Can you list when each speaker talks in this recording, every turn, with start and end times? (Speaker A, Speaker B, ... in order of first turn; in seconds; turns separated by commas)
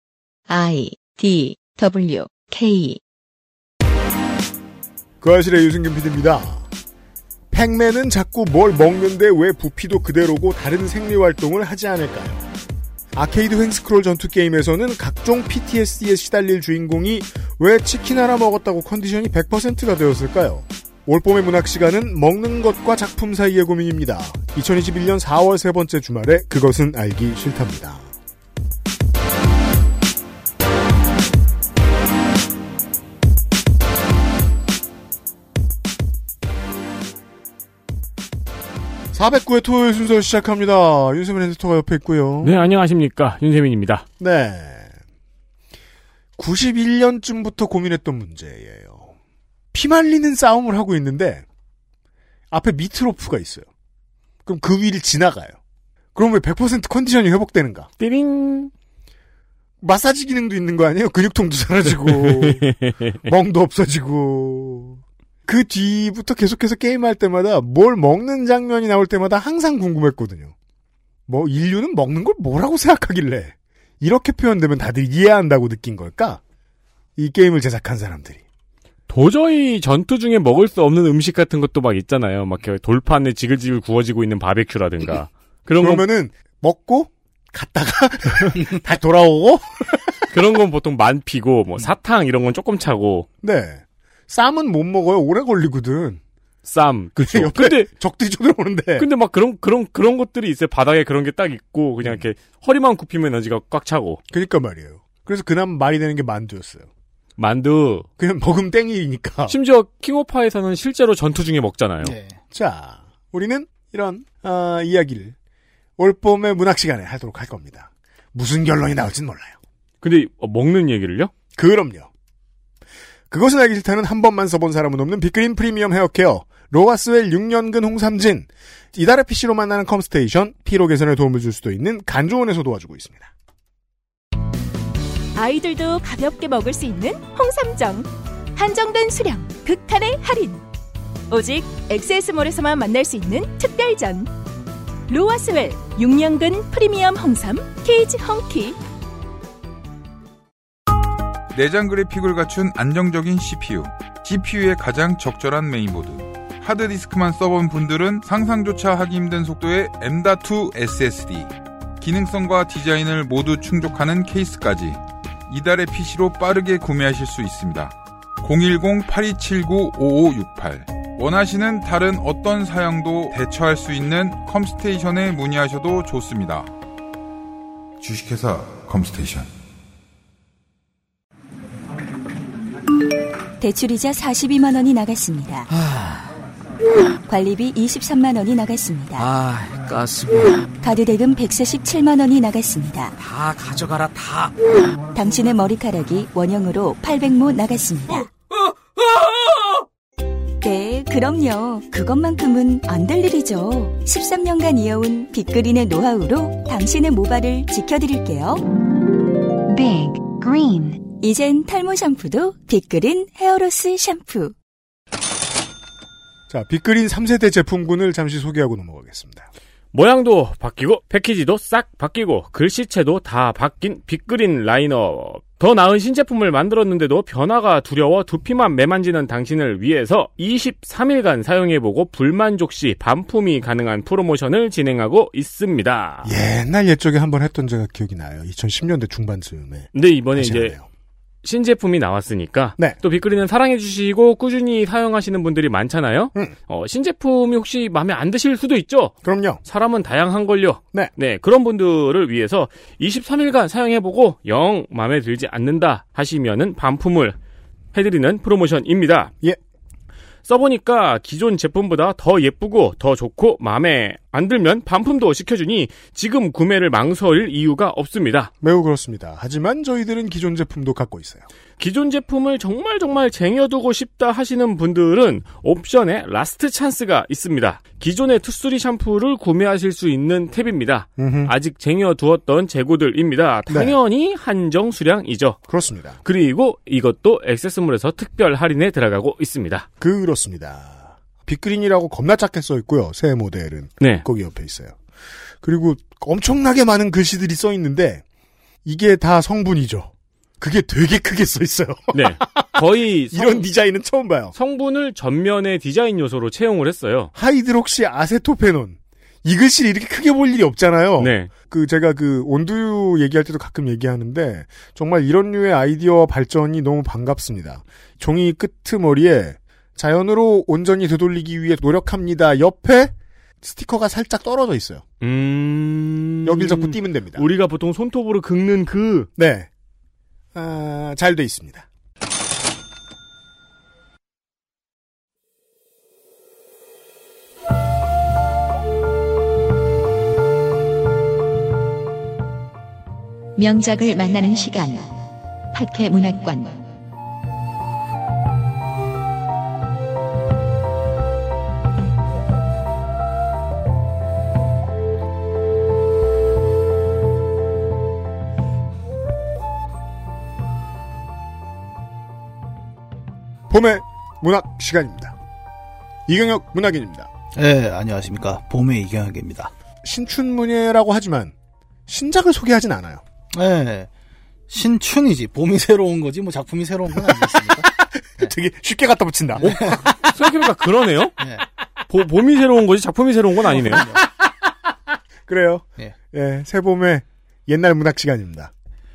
Speaker A: 0.5-3.0, Speaker B: 5.2-6.7, Speaker B: 7.5-12.5, Speaker B: 13.1-28.1, Speaker B: 39.1-42.6, Speaker C: 42.4-44.0, Speaker B: 44.2-44.9, Speaker B: 46.4-49.1, Speaker B: 49.7-51.4, Speaker B: 52.5-53.7, Speaker B: 54.5-55.6, Speaker B: 56.1-57.9, Speaker C: 58.0-58.7, Speaker B: 59.8-62.6, Speaker C: 62.0-63.1, Speaker B: 63.2-70.5, Speaker B: 71.3-76.4, Speaker B: 77.2-78.4, Speaker C: 79.1-86.0, Speaker B: 85.7-90.0, Speaker C: 90.3-93.3, Speaker B: 93.4-96.2, Speaker C: 96.7-97.9, Speaker B: 97.2-99.1, Speaker C: 99.0-104.2, Speaker B: 104.3-106.9, Speaker C: 107.4-108.1, Speaker B: 108.2-109.5, Speaker C: 109.5-112.1, Speaker D: 112.0-112.4, Speaker B: 112.5-115.3, Speaker B: 116.0-119.6, Speaker C: 120.0-121.3, Speaker B: 121.5-122.1, Speaker B: 123.3-133.3, Speaker E: 135.3-140.6, Speaker E: 141.3-144.3, Speaker E: 145.1-148.8, Speaker F: 151.5-176.7, Speaker F: 178.0-179.5, Speaker G: 183.6-185.7, Speaker H: 185.7-186.3, Speaker G: 187.3-189.3, Speaker H: 189.2-190.7, Speaker G: 190.8-193.1, Speaker H: 193.2-194.6, Speaker G: 195.1-198.3, Speaker G: 200.6-208.6, Speaker A: 209.7-211.0, Speaker G: 211.2-214.5, Speaker B: 216.5-219.5, Speaker C: 219.9-236.3, Speaker B: 236.2-240.8, Speaker C: 239.9-240.7, Speaker C: 241.4-257.4, Speaker B: 249.2-249.6, Speaker C: 257.9-259.3, Speaker C: 260.5-268.5, Speaker B: 268.6-271.5, Speaker C: 271.8-285.6, Speaker B: 281.2-281.5, Speaker B: 283.7-283.9, Speaker B: 285.7-286.2, Speaker C: 286.2-289.9, Speaker B: 290.0-294.9, Speaker C: 294.0-294.2, Speaker B: 295.6-298.2, Speaker B: 298.8-304.5, Speaker C: 302.1-303.6, Speaker C: 304.5-307.3, Speaker B: 307.3-325.0, Speaker C: 311.2-311.5, Speaker C: 325.2-329.3, Speaker B: 326.4-327.4, Speaker B: 329.4-329.7, Speaker B: 330.5-331.9, Speaker A: 343.6-345.1, Speaker A: 345.7-346.8, Speaker B: 363.7-365.4, Speaker B: 366.3-367.3, Speaker D: 367.5-369.7, Speaker B: 370.0-371.5, Speaker B: 372.1-373.2, Speaker D: 373.5-374.1, Speaker D: 374.7-378.5, Speaker B: 377.1-380.3, Speaker D: 379.6-380.1, Speaker C: 380.3-381.4, Speaker D: 381.4-381.6, Speaker C: 382.1-384.1, Speaker D: 383.8-384.2, Speaker B: 385.5-388.7